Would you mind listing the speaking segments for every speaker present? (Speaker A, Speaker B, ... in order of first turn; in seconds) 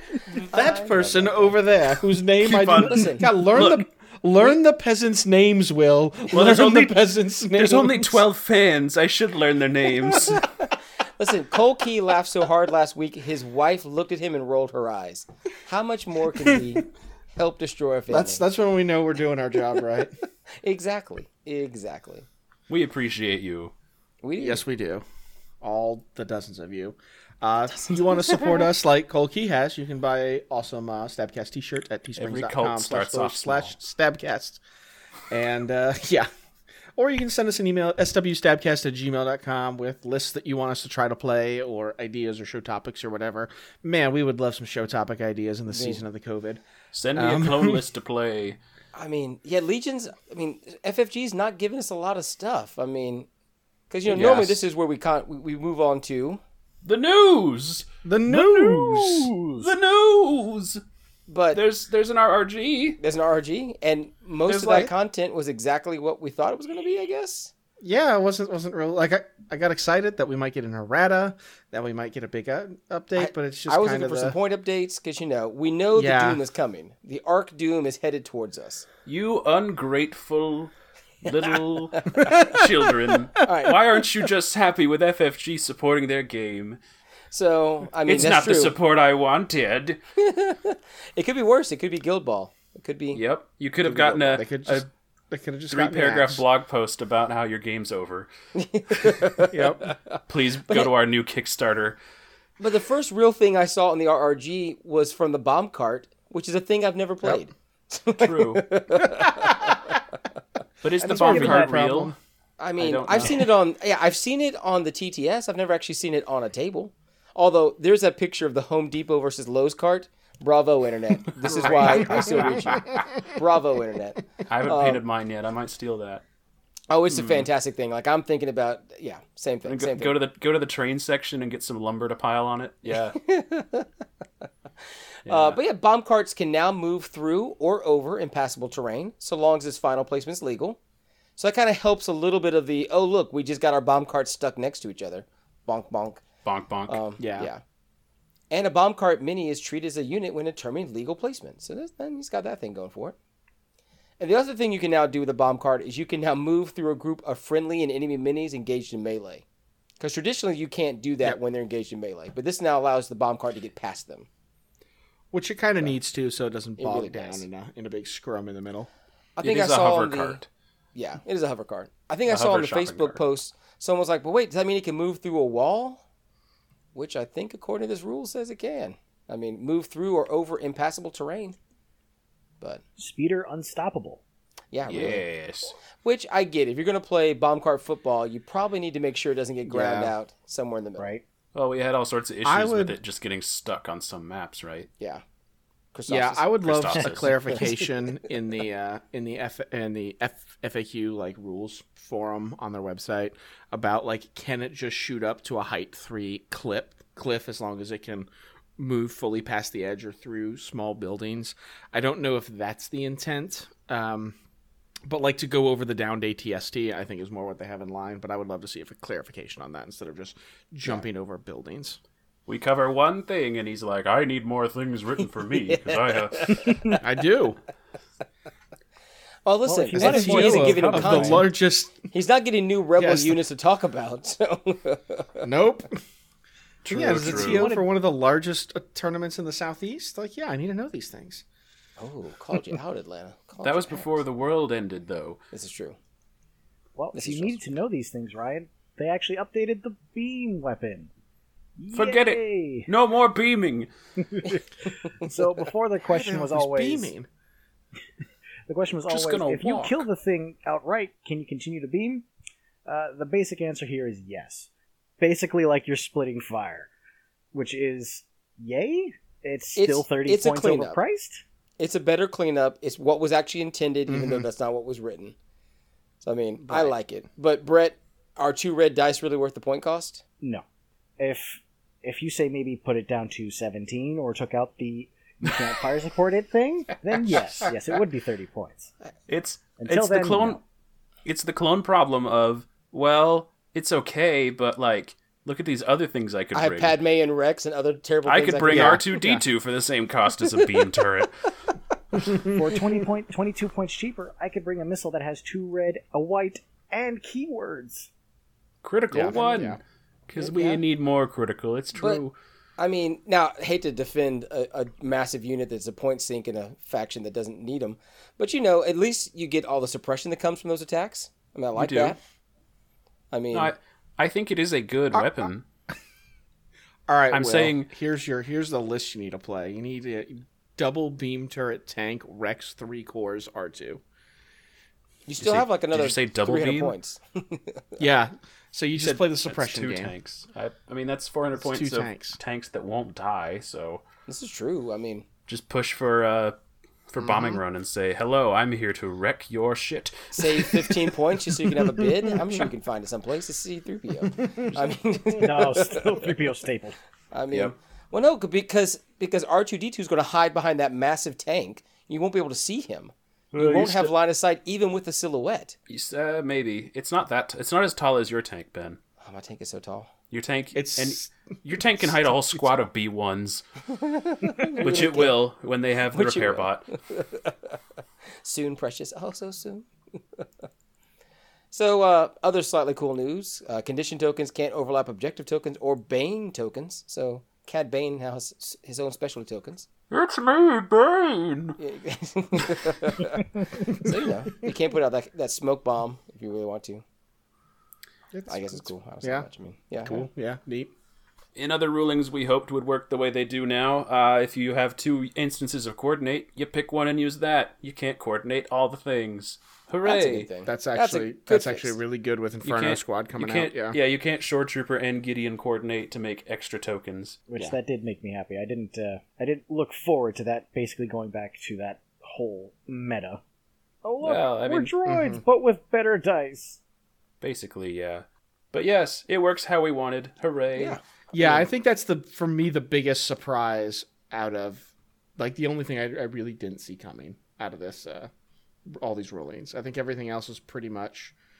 Speaker A: 0.3-1.6, 2.8-3.3, 11.2-18.4, 20.6-22.3, 24.2-24.6, 27.8-28.7, 45.7-46.0, 49.0-53.3, 53.9-56.4, 61.3-61.6, 63.0-67.5, 73.2-78.9, 81.9-82.6, 83.4-83.8, 87.3-88.8, 90.2-93.2, 98.5-100.9, 102.6-110.0, 112.6-125.0, 126.9-130.2, 133.1-134.0, 135.3-140.8, 141.4-146.2, 146.9-147.6, 148.5-153.2, 154.2-159.4, 160.0-164.3, 166.8-167.4, 169.4-170.4, 170.9-176.0, 176.9-181.6, 184.7-185.2, 186.0-191.1, 195.9-196.5, 197.3-197.6, 225.6-227.0, 229.4-231.5, 232.1-235.5, 242.0-244.2, 245.5-246.0, 247.1-247.7, 269.8-271.0, 271.8-275.4, 276.2-280.2, 296.5-299.1, 310.4-310.8, 312.0-312.2, 312.8-322.2, 323.3-323.7, 335.3-338.0, 344.3-345.3, 350.3-356.2, 357.3-365.8, 369.2-370.1, 374.0-375.4, 376.1-377.8, 378.4-380.6, 381.7-389.9, 391.8-397.0, 398.5-400.2, 410.1-412.0
Speaker B: 0.5-8.2, 18.1-20.1, 24.4-25.0, 25.6-34.6, 35.3-36.3, 37.0-46.6, 47.1-47.8, 58.0-59.7, 67.8-74.4, 75.9-76.4, 93.8-96.4, 99.5-99.9, 109.3-109.8, 111.0-112.2, 121.6-122.8, 147.2-147.5, 165.3-168.9, 189.7-190.1, 192.4-193.0, 196.1-214.4, 215.1-222.0, 227.0-227.6, 229.9-232.1, 233.0-233.4, 235.4-236.0, 236.9-241.4, 256.1-257.3, 274.1-274.5, 276.6-276.9, 298.7-299.4, 309.1-309.8, 327.1-334.0, 338.0-340.1, 341.6-342.4, 347.2-347.6, 370.8-372.4, 398.3-399.5, 400.0-400.9, 410.7-414.0, 425.1-425.4, 431.3-438.3, 438.9-441.4
Speaker C: 2.4-3.9, 6.3-10.5, 22.7-23.7, 32.2-33.7, 46.9-48.6, 54.1-54.7, 56.8-60.8, 61.5-63.0, 64.5-64.9, 79.1-80.7, 81.2-86.8, 88.0-90.0, 93.1-94.9, 95.7-98.3, 100.3-102.0, 108.2-108.7, 110.8-112.1, 112.8-113.5, 121.4-122.8, 124.5-126.2, 127.1-127.5, 129.7-133.2, 135.3-135.6, 146.4-147.0, 169.4-170.5, 172.3-173.2, 184.9-185.8, 191.5-194.9, 196.6-197.6, 222.5-226.9, 236.8-237.7, 243.6-245.4, 251.9-253.9, 259.1-260.0, 289.3-290.6, 291.2-297.0, 298.2-301.4, 308.8-312.4, 321.8-322.2, 323.5-325.6, 327.3-327.9, 335.4-336.9, 339.0-344.0, 345.5-346.6, 347.1-350.9, 363.5-364.1, 365.9-369.0, 370.3-373.6, 374.6-376.9, 390.1-391.8, 401.6-410.5, 412.6-417.4, 424.2-424.9, 427.4-431.7
Speaker D: 111.0-111.8, 183.0-184.2, 191.0-191.2, 229.7-231.5, 237.0-237.9, 247.0-251.1, 251.8-252.9, 254.3-257.1, 258.7-262.3, 262.9-264.7, 265.2-266.9, 267.5-271.4, 281.2-288.9, 289.8-290.6, 302.4-308.1, 355.4-357.0, 417.5-423.4, 424.0-426.8